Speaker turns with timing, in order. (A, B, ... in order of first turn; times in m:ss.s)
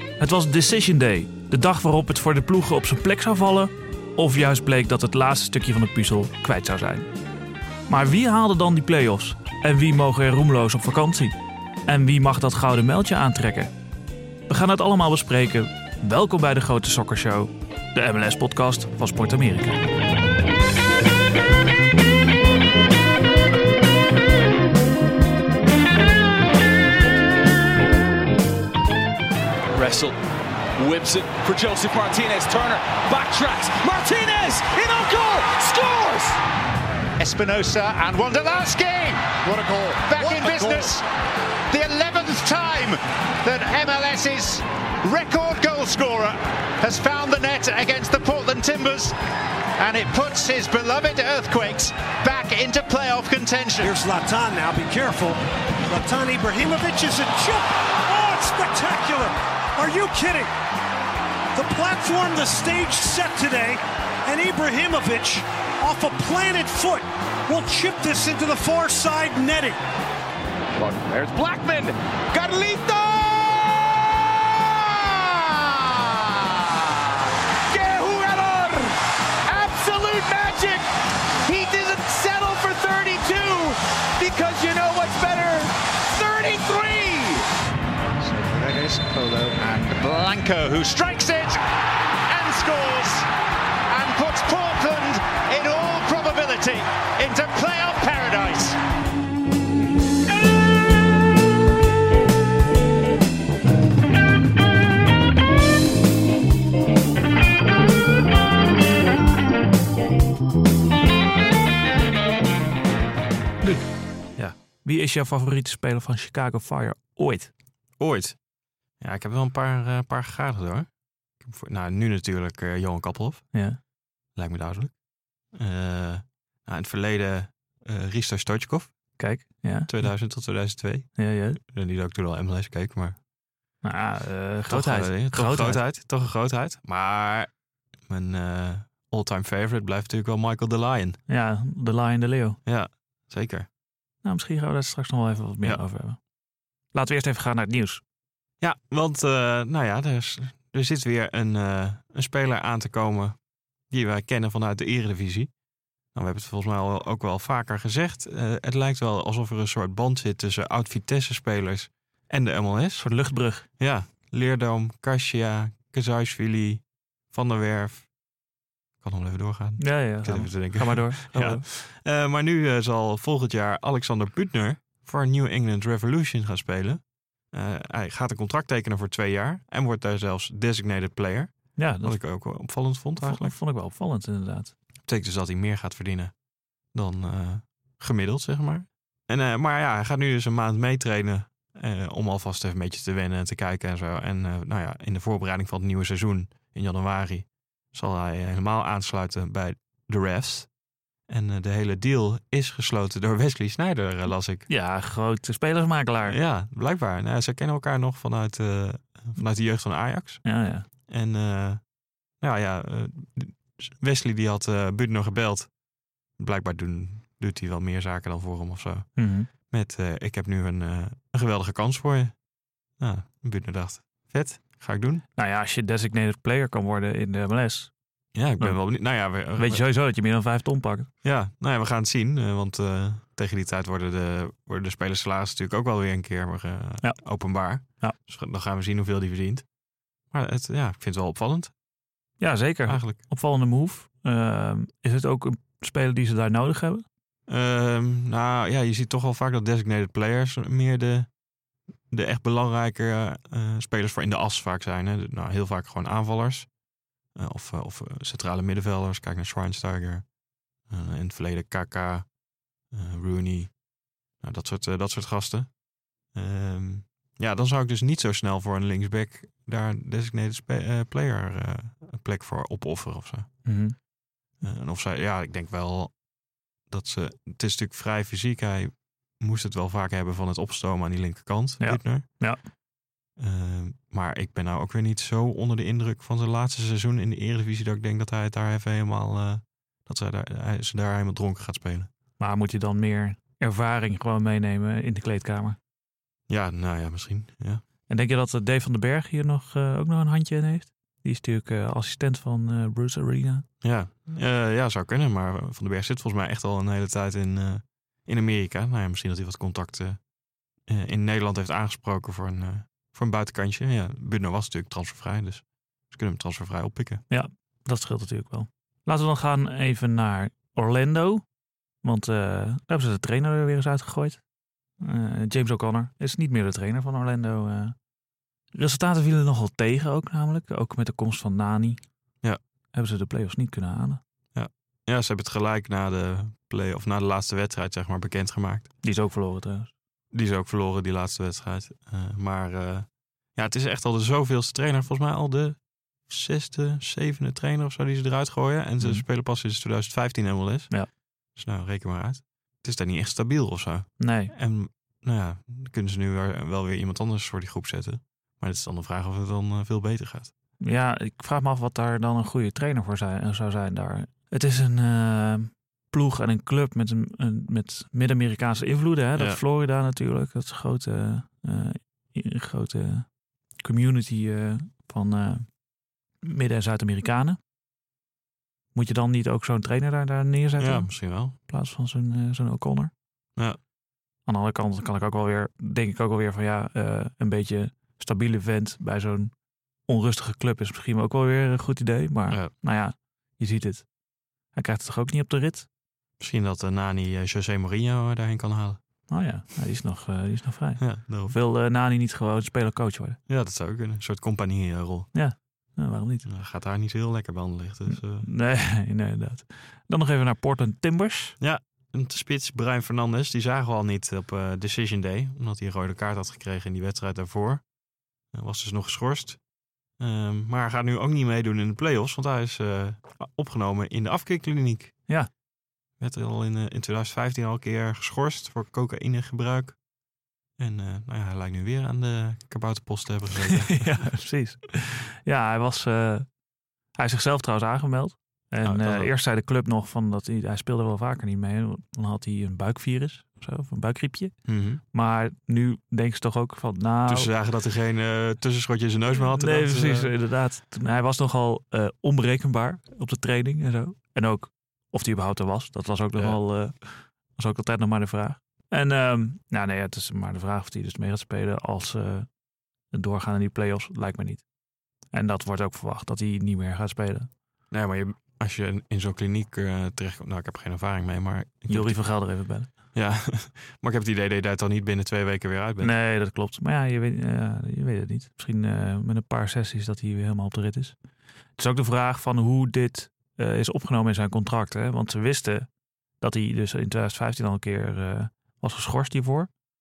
0:00.2-0:07.1 A
0:07.9-0:13.7 A
0:14.5-0:19.8 A
0:29.7-0:30.2 B
0:30.8-0:36.4 B
0:37.2-0:41.0 C
0:39.4-0:40.9 B
0:41.7-0:49.1 C
0:49.8-0:54.0 C
0:53.8-1:00.5 D
1:01.5-1:09.8 D
1:10.7-1:14.0 B
1:14.7-1:16.8 B
1:17.7-1:18.9 B
1:19.5-1:20.8 B
1:21.4-1:23.2 C
1:21.6-1:27.4 B
1:24.6-1:25.1 C
1:28.2-1:31.6 C
1:32.3-1:33.3 C
1:33.9-1:38.8 C
1:53.6-1:57.5 A
1:58.0-1:58.4 E
1:59.0-2:00.9 E
2:01.4-2:03.5 E
2:03.5-2:03.8 A
2:04.3-2:05.0 E
2:05.5-2:08.9 E
2:09.2-2:10.1 A
2:09.9-2:13.2 E
2:11.2-2:11.6 A
2:13.8-2:15.8 A
2:14.7-2:17.5 E
2:18.0-2:21.2 E
2:21.3-2:22.6 A
2:22.6-2:23.7 E
2:24.2-2:26.2 A
2:26.9-2:28.0 A
2:28.6-2:33.4 E
2:33.9-2:35.5 E
2:36.1-2:43.1 E
2:43.0-2:43.6 A
2:43.8-2:48.1 E
2:49.0-3:03.6 E
2:49.8-2:51.6 A
3:01.8-3:04.7 A
3:05.0-3:06.4 E
3:06.9-3:20.7 E
3:21.3-3:24.7 E
3:24.7-3:26.4 A
3:26.2-3:30.4 E
3:30.4-3:30.8 A
3:31.0-3:31.8 E
3:32.4-3:35.7 E
3:36.4-3:42.4 E
3:39.2-3:39.5 A
3:43.0-3:45.2 E
3:45.4-3:47.9 A
3:48.3-3:49.8 E
3:48.6-3:51.1 A
3:51.2-3:59.6 E
3:57.8-3:58.2 A
4:00.3-4:01.7 E
4:02.4-4:07.0 A
4:02.9-4:03.2 E
4:07.5-4:11.3 E
4:12.1-4:16.7 E
4:17.3-4:20.3 E
4:20.8-4:22.3 E
4:22.9-4:23.8 E
4:24.4-4:25.8 E
4:26.3-4:33.5 E
4:33.6-4:34.0 A
4:34.6-4:36.2 E
4:36.8-4:42.2 E
4:41.8-4:42.6 A
4:43.4-4:52.1 E
4:52.4-4:55.8 A
4:56.5-4:57.8 E
4:58.1-5:03.7 A
5:03.8-5:10.2 E
5:10.8-5:17.2 E
5:17.3-5:21.4 A
5:22.0-5:24.4 A
5:25.0-5:27.9 A
5:28.7-5:32.0 A
5:32.9-5:34.2 A
5:34.5-5:38.9 E
5:39.0-5:39.9 A
5:40.3-5:51.0 E
5:49.0-5:49.2 A
5:51.5-6:00.5 E
5:54.2-5:54.5 A
6:00.8-6:15.8 A
6:09.4-6:09.6 E
6:16.4-6:17.6 A
6:18.9-6:23.1 A
6:20.8-6:21.6 E
6:24.4-6:29.5 A
6:30.0-6:34.1 A
6:34.7-6:35.9 A
6:36.4-6:39.0 E
6:39.3-6:43.4 A
6:41.0-6:41.6 E
6:43.5-6:45.3 E
6:45.3-6:46.5 A
6:46.4-6:48.5 E
6:48.1-6:51.6 A
6:51.6-6:57.8 E
6:58.5-7:05.2 E
7:06.2-7:10.0 E
7:10.8-7:14.3 E
7:13.9-7:16.5 A
7:17.2-7:24.6 A
7:18.8-7:19.3 E
7:24.6-7:25.0 E
7:25.1-7:27.5 A
7:27.3-7:30.3 E
7:29.5-7:42.5 A
7:43.1-7:44.6 A
7:45.3-7:47.5 A
7:47.9-7:52.2 E
7:51.9-7:52.9 A
7:53.1-7:56.1 E
7:56.0-8:01.2 A
8:01.8-8:05.9 A
8:06.4-8:09.7 A